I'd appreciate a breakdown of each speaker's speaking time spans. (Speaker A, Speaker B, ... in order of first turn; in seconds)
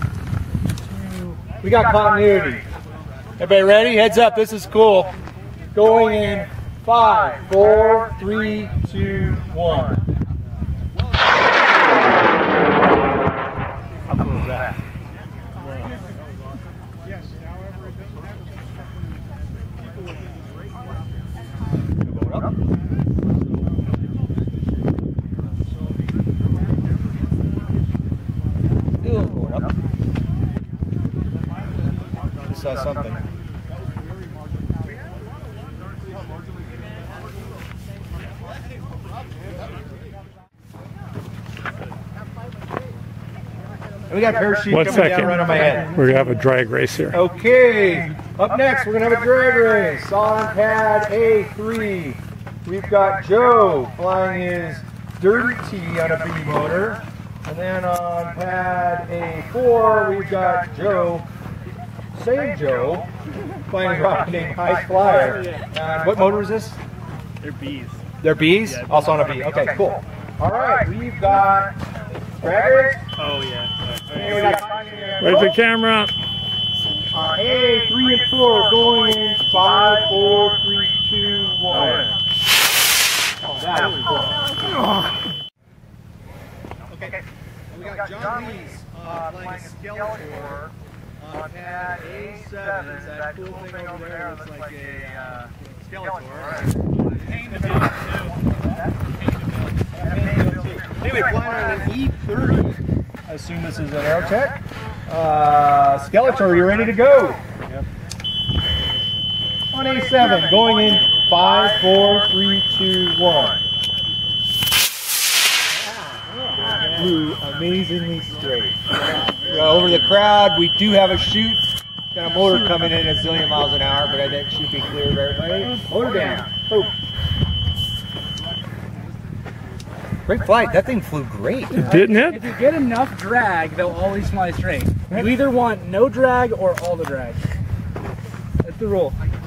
Speaker A: 0.9-2.7, 3.4-5.1, 5.7-10.0, 29.0-29.7, 32.5-33.2, 44.1-46.0, 47.1-61.3, 62.1-63.1, 63.7-66.8, 68.2-71.8, 72.4-73.0, 74.1-75.5, 77.1-82.1, 83.5-84.5, 86.9-87.2, 87.7-96.7, 100.0-107.4, 109.7-113.6, 116.7-118.8, 119.3-126.9, 130.3-132.0
Speaker B: 44.7-47.2, 75.2-76.1, 131.8-132.4
Speaker C: 67.4-67.9, 73.2-74.8, 119.2-119.6, 131.9-137.4, 138.6-139.1